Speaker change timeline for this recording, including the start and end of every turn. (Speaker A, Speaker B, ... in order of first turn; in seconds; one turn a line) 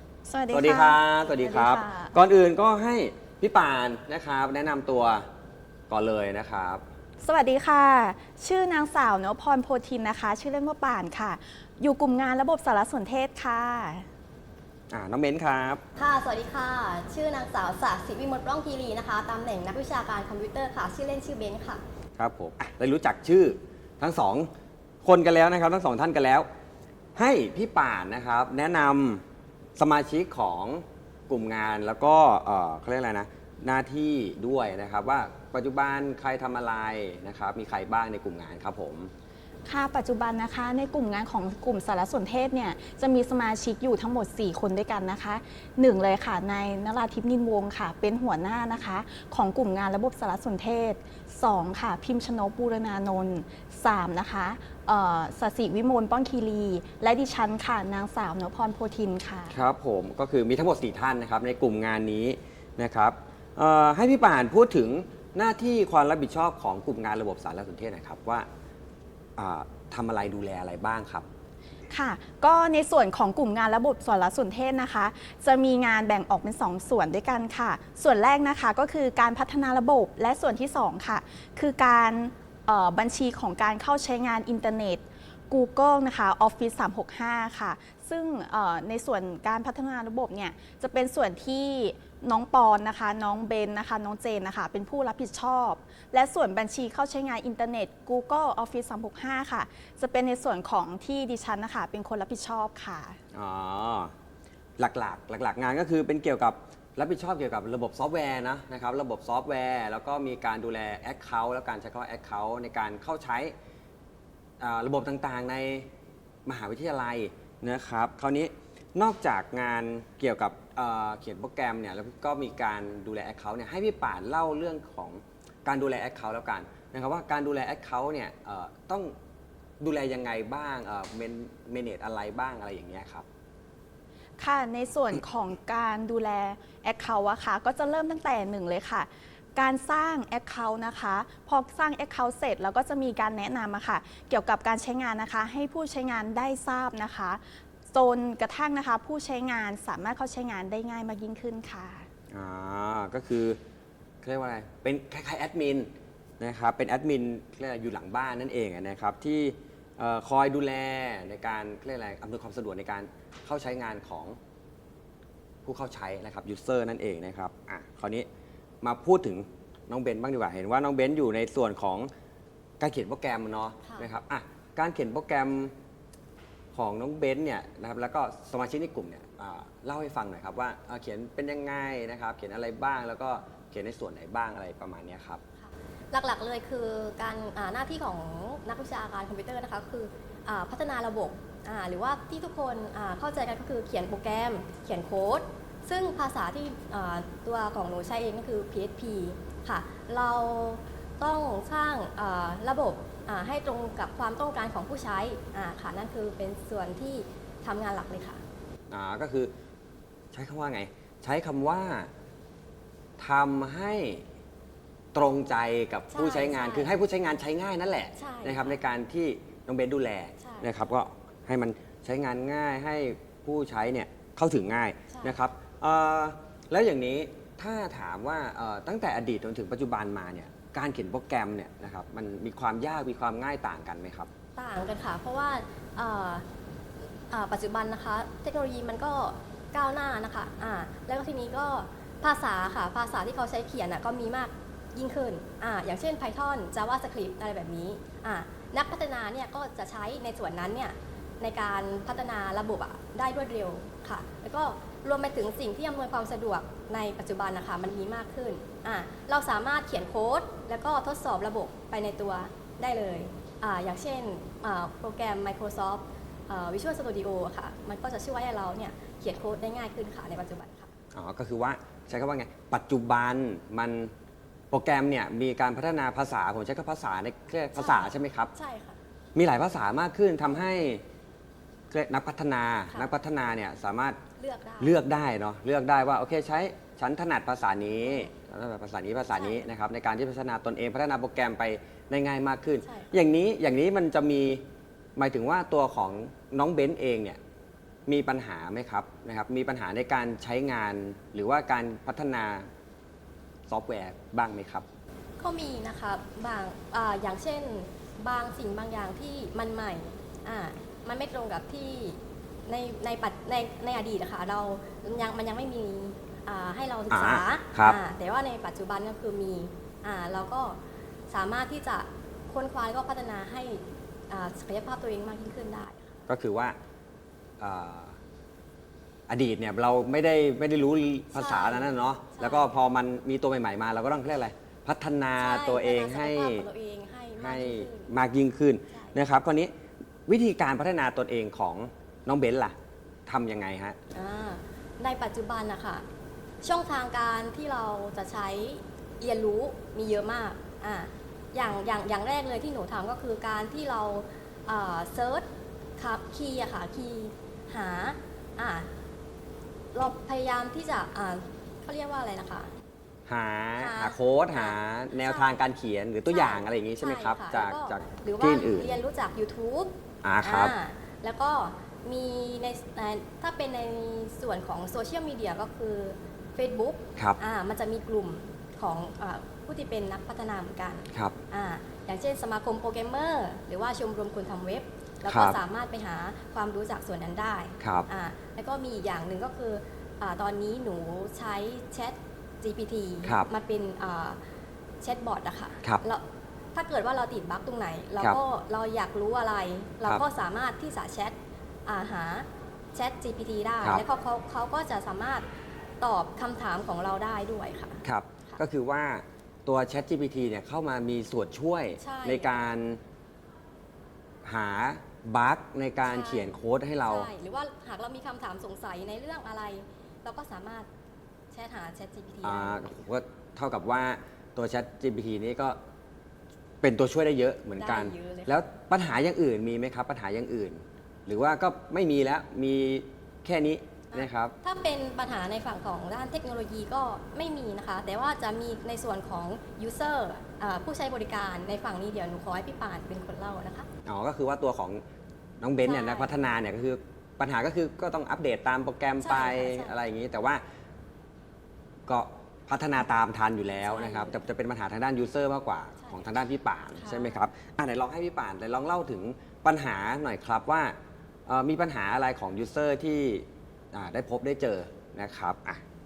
Speaker A: 0.3-2.1
Speaker B: 0.5-5.2
Speaker B: 5.9-6.8
Speaker A: 7.2-8.0
Speaker C: 7.2-14.0
Speaker B: 14.9-15.8
Speaker A: 15.9-21.8
Speaker B: 22.2-24.5
Speaker B: 25.0-26.4
Speaker B: 27.1-29.2
Speaker B: 29.8-39.1
Speaker A: 39.7-45.0
Speaker C: 39.9-41.2
Speaker C: 42.0-43.0
Speaker C: 43.6-51.0
Speaker A: 45.8-46.4
Speaker A: 47.0-50.8
Speaker A: 51.3-59.6
Speaker C: 51.7-53.5
Speaker C: 54.1-54.7
Speaker C: 55.5-59.0
Speaker B: 59.5-68.5
Speaker B: 69.4-71.2
Speaker A: 71.9-72.6
Speaker C: 72.1-102.4
Speaker A: 73.1-73.5
Speaker A: 74.2-74.6
Speaker A: 76.2-77.9
Speaker A: 79.3-81.0
Speaker A: 87.4-88.0
Speaker A: 89.2-91.1
Speaker A: 91.7-92.2
Speaker A: 93.0-93.8
Speaker A: 94.7-96.6
Speaker A: 97.2-97.6
Speaker A: 98.3-103.2
Speaker B: 103.3-104.1
Speaker B: 104.8-113.5
Speaker B: 114.6-115.9
Speaker B: 116.5-129.1
Speaker B: 129.8-133.2
Speaker A: 134.4-142.5
Speaker C: 135.9-136.6
Speaker C: 137.2-138.7
Speaker C: 139.6-141.3
Speaker C: 142.0-147.4
Speaker A: 143.2-144.8
Speaker A: 146.4-147.2
Speaker C: 147.9-151.6
Speaker A: 148.0-152.1
Speaker B: 152.3-153.6
Speaker B: 154.2-164.4
Speaker B: 165.6-168.3
Speaker B: 168.8-172.1
Speaker B: 172.8-175.7
Speaker B: 176.7-185.4
Speaker A: 185.6-208.4
Speaker B: 208.9-209.5
Speaker B: 210.3-212.1
Speaker B: 213.2-214.2
Speaker B: 215.1-234.3
Speaker A: 216.1-217.0
Speaker A: 218.2-218.8
Speaker A: 220.4-220.7
Speaker A: 234.6-236.4
Speaker A: 237.3-270.9
Speaker B: 271.1-274.1
Speaker B: 274.7-278.5
Speaker A: 277.7-279.0
Speaker B: 279.3-281.0
Speaker B: 281.9-284.2
Speaker A: 284.4-284.9
Speaker B: 284.8-294.6
Speaker A: 289.3-289.6
Speaker A: 292.8-293.1
Speaker B: 295.1-297.4
Speaker B: 298.1-302.7
Speaker B: 303.7-304.8
Speaker A: 305.4-326.1
Speaker B: 317.1-318.0
Speaker B: 326.3-326.8
Speaker B: 327.6-328.2
Speaker B: 329.3-336.7
Speaker A: 331.3-332.7
Speaker A: 335.4-338.1
Speaker B: 337.4-339.7
Speaker A: 338.9-339.1
Speaker B: 340.3-342.7
Speaker B: 343.3-344.0
Speaker A: 344.1-346.0
Speaker A: 346.6-355.4
Speaker A: 356.0-358.9
Speaker A: 359.9-362.7
Speaker B: 363.3-369.0
Speaker A: 363.8-365.6
Speaker A: 366.3-394.4
Speaker B: 370.2-370.8
Speaker B: 385.2-385.6
Speaker B: 387.8-388.1
Speaker B: 393.2-393.5
Speaker A: 395.0-405.4
Speaker A: 406.0-408.6
Speaker B: 408.0-413.0
Speaker A: 412.0-412.6
Speaker B: 414.4-417.3
Speaker A: 416.0-416.5
Speaker A: 417.1-420.9
Speaker A: 421.5-422.9
Speaker B: 422.4-425.8
Speaker B: 426.8-434.5
Speaker A: 427.8-428.5
Speaker A: 434.1-443.9
Speaker B: 444.1-445.0
Speaker B: 445.6-450.6
Speaker A: 445.8-446.4
Speaker A: 449.2-449.9
Speaker B: 452.1-460.9
Speaker A: 453.8-454.4
Speaker A: 456.9-457.4
Speaker B: 461.5-465.8